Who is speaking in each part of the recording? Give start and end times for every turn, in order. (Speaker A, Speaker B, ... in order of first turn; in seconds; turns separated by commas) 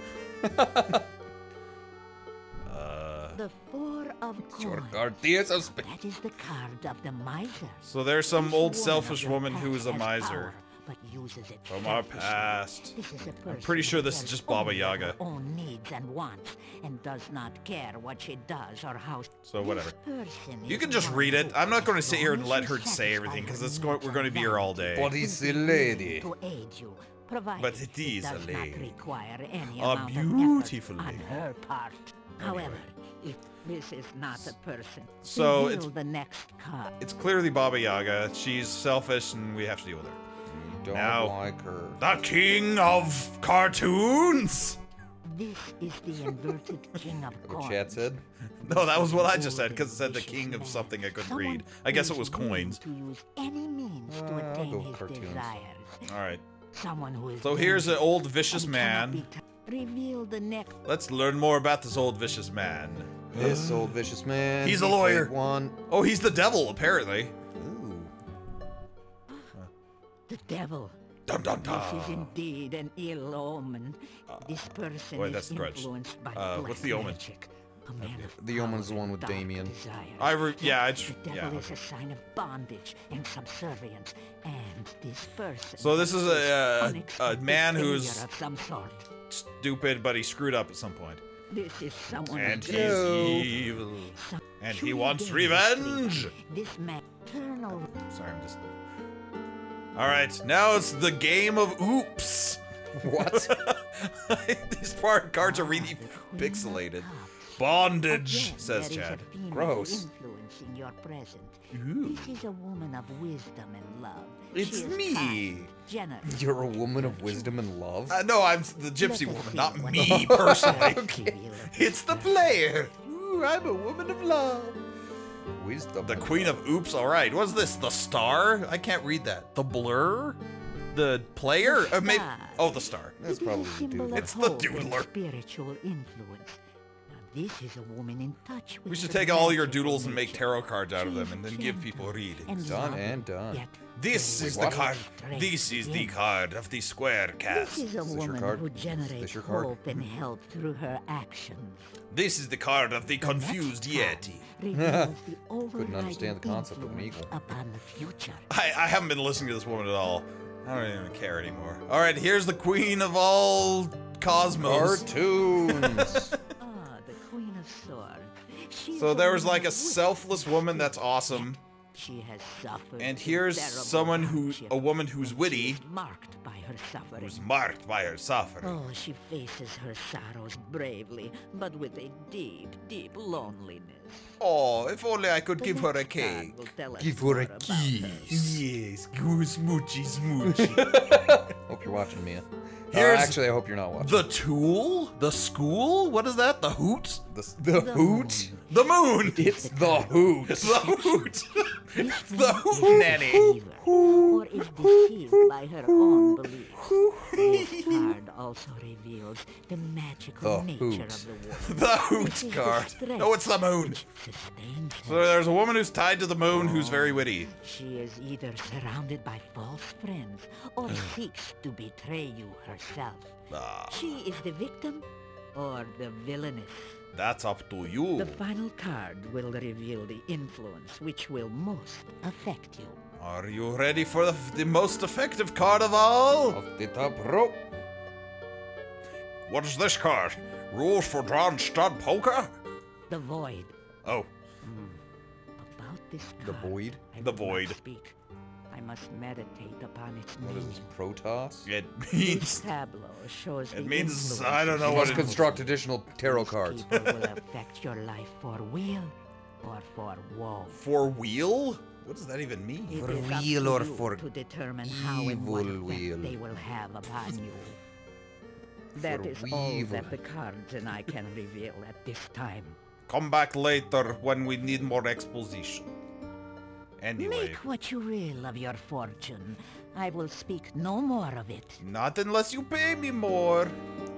Speaker A: 0.4-1.0, Speaker B: 2.7-3.4, Speaker C: 3.3-37.0, Speaker A: 4.5-5.9, Speaker B: 7.8-10.5, Speaker B: 11.7-15.2, Speaker B: 19.5-19.9, Speaker B: 20.7-25.1, Speaker A: 25.0-26.3, Speaker B: 27.6-29.1, Speaker B: 29.7-31.4, Speaker B: 32.4-32.8, Speaker B: 35.2-35.9, Speaker B: 37.0-40.2, Speaker A: 40.5-42.0, Speaker B: 40.9-41.4, Speaker B: 42.0-44.8, Speaker C: 45.2-48.1, Speaker A: 47.4-48.2, Speaker B: 48.6-52.8, Speaker C: 48.6-56.1, Speaker A: 54.1-55.5, Speaker B: 56.1-56.4, Speaker C: 56.7-60.8, Speaker B: 57.4-59.3, Speaker B: 60.9-64.0, Speaker A: 63.3-65.8, Speaker B: 64.6-65.3, Speaker B: 65.9-67.3, Speaker A: 67.5-68.1, Speaker C: 70.3-71.0, Speaker B: 71.3-72.3, Speaker C: 71.6-89.1, Speaker B: 74.3-74.5, Speaker B: 75.1-77.2, Speaker A: 78.2-79.7, Speaker B: 80.2-81.7, Speaker B: 85.8-88.2, Speaker B: 89.3-91.2, Speaker C: 91.5-93.5, Speaker B: 92.2-96.3, Speaker A: 92.5-93.5, Speaker C: 94.1-97.9, Speaker B: 97.9-98.6, Speaker B: 100.0-102.6, Speaker A: 103.0-103.6, Speaker B: 103.2-109.3, Speaker C: 105.4-117.6, Speaker A: 109.5-110.1, Speaker B: 111.7-112.4, Speaker B: 114.5-115.7, Speaker A: 116.2-118.2, Speaker B: 118.1-121.1, Speaker C: 119.0-122.7, Speaker A: 120.0-121.3, Speaker B: 121.7-124.8, Speaker A: 125.5-126.6, Speaker B: 126.0-130.4, Speaker B: 130.9-133.2, Speaker C: 131.6-146.1, Speaker A: 133.2-134.3, Speaker B: 134.2-135.1, Speaker B: 138.9-142.8, Speaker A: 142.6-143.6, Speaker B: 144.0-147.9, Speaker A: 144.4-144.9, Speaker C: 147.5-152.0, Speaker A: 148.0-149.7, Speaker B: 152.1-154.5, Speaker C: 153.2-158.5, Speaker A: 154.7-155.1, Speaker A: 155.8-157.4, Speaker B: 158.5-166.3, Speaker A: 164.6-166.3, Speaker C: 166.6-177.5, Speaker B: 168.9-171.6, Speaker B: 173.0-175.8, Speaker B: 177.2-178.8, Speaker C: 178.6-184.4, Speaker B: 184.4-186.7, Speaker C: 185.6-188.3, Speaker A: 187.0-188.6, Speaker B: 188.3-191.5, Speaker A: 190.4-194.3, Speaker B: 192.9-193.4, Speaker B: 194.0-197.2, Speaker A: 197.3-198.5, Speaker C: 197.7-198.9, Speaker B: 198.7-199.6, Speaker A: 199.2-200.9, Speaker C: 199.4-201.3, Speaker B: 200.5-204.1, Speaker C: 201.9-215.3, Speaker A: 202.8-207.3, Speaker B: 207.3-208.1, Speaker A: 210.4-211.3, Speaker B: 211.6-214.0, Speaker B: 215.1-217.5, Speaker C: 216.6-223.4, Speaker B: 223.5-224.1, Speaker C: 223.9-227.0, Speaker B: 227.2-228.4, Speaker C: 228.2-233.0, Speaker B: 233.2-236.6, Speaker A: 236.5-237.6, Speaker B: 239.5-242.6, Speaker C: 243.1-243.8, Speaker C: 245.6-248.2, Speaker A: 246.4-247.0, Speaker B: 247.2-247.8, Speaker C: 248.7-250.9, Speaker A: 250.4-251.7, Speaker B: 251.7-252.7, Speaker C: 252.2-260.8, Speaker B: 253.7-255.6, Speaker A: 254.8-256.9, Speaker B: 260.7-263.1, Speaker C: 262.9-267.8, Speaker A: 262.9-264.3, Speaker A: 264.8-266.5, Speaker A: 268.9-270.2, Speaker C: 268.9-272.8, Speaker B: 273.1-275.9, Speaker B: 277.0-277.6, Speaker C: 277.2-281.8, Speaker B: 281.8-283.8